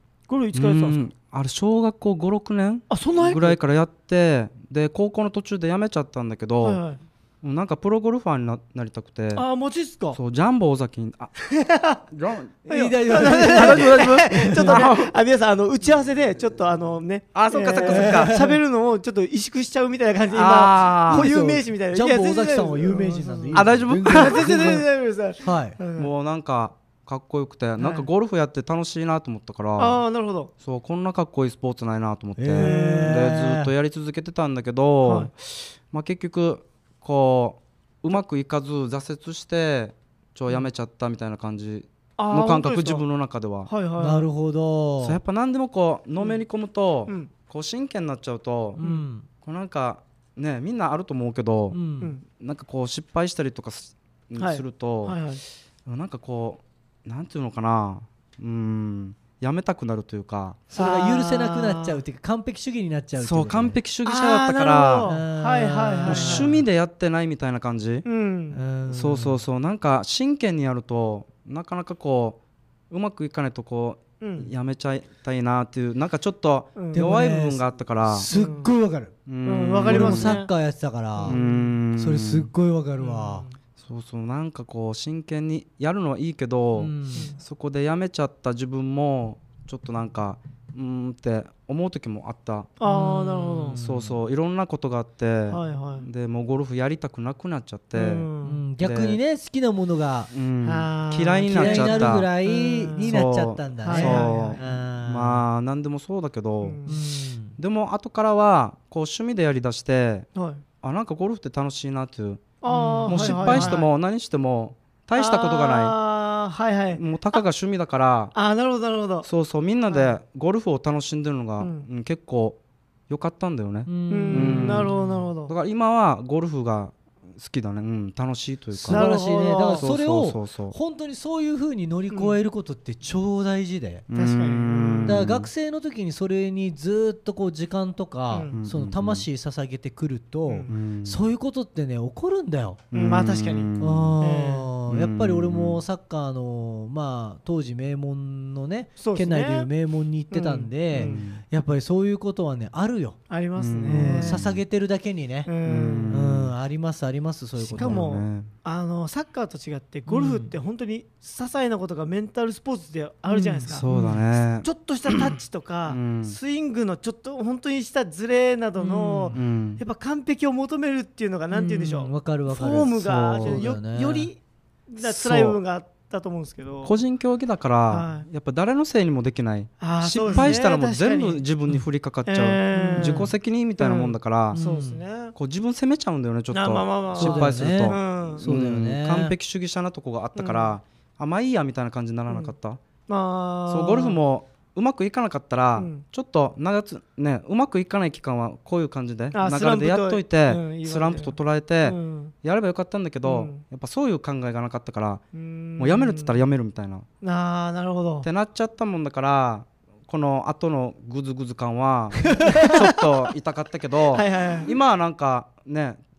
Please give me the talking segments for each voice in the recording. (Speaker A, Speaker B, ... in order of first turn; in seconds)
Speaker A: 0.3-1.0, 2.9-3.6, 6.6-7.0, 9.3-10.2, 11.5-12.0, 12.7-26.1, 27.8-28.1, 29.8-30.5, 32.6-33.3, 35.0-35.3, 42.2-43.0, 43.7-44.3, 48.8-49.1, 54.4-55.4, 60.8-62.0, 64.0-66.5, 68.0-68.6, 74.2-74.5, 76.8-77.1, 78.3-78.7, 79.4-80.5, 81.2-81.8, 83.0-83.6, 92.8-93.8, 95.5-96.1, 97.9-98.6, 100.6-103.2, 103.8-104.6, 106.6-107.0, 110.3-110.6, 112.6-113.9, 115.2-117.4, 118.3-119.3, 119.9-120.2, 121.6-121.9, 124.1-125.5, 128.9-129.9, 132.1-132.4, 134.1-135.2, 138.3-138.6, 140.5-140.7, 142.9-144.7, 149.0-149.7, 150.3-151.3, 153.3-154.5, 155.5-156.2, 157.7-163.9, 164.6-176.9, 177.9-178.3, 179.8-181.4, 182.3-185.3, 186.5-188.4, 190.4-190.8, 193.1-194.2, 195.8-196.1, 199.3-202.3, 203.2-203.6, 205.3-206.4, 207.2-208.3, 212.2-213.0, 214.1-214.7
Speaker B: 0.5-6.8, 7.4-9.5, 10.1-11.3, 12.1-15.1, 17.4-18.4, 20.3-21.3, 23.5-24.8, 26.0-30.0, 30.6-43.7, 45.0-48.8, 49.4-55.2, 55.9-60.6, 63.2-65.1, 66.1-68.0, 68.9-72.4, 72.9-78.3, 79.3-80.4, 81.2-82.5, 83.8-92.8, 93.7-98.3, 98.8-99.2, 100.3-102.3, 103.0-106.9, 107.6-110.3, 110.8-116.0, 117.0-118.3, 119.2-125.0, 125.5-129.1, 129.7-130.8, 134.1-135.5, 138.5-139.2, 140.7-141.2, 142.9-144.2, 144.9-145.8, 150.9-151.4, 153.6-154.6, 155.7-156.5, 157.7-158.5, 163.6-166.4, 169.3-169.8, 173.0-173.7, 175.0-175.6, 176.8-184.6, 185.3-192.8, 193.7-205.2, 205.8-207.1, 208.2-216.0
Speaker C: 12.7-14.9, 17.9-18.6, 21.1-24.9, 25.4-25.8, 32.4-33.7, 44.0-45.2, 48.7-49.3, 51.7-52.1, 60.7-63.8, 65.0-66.6, 68.5-69.4, 76.9-79.1, 79.8-81.4, 81.9-83.5, 86.8-87.3, 92.8-94.2, 98.4-100.3, 101.5-105.4, 106.9-107.6, 112.7-113.8, 123.9-125.3, 128.7-134.1, 135.0-142.9, 143.8-153.2, 153.9-155.5, 156.1-158.0, 160.1-160.5, 163.3-164.2, 168.8-169.4, 171.5-174.3, 182.8-183.3, 184.5-185.0, 187.2-189.3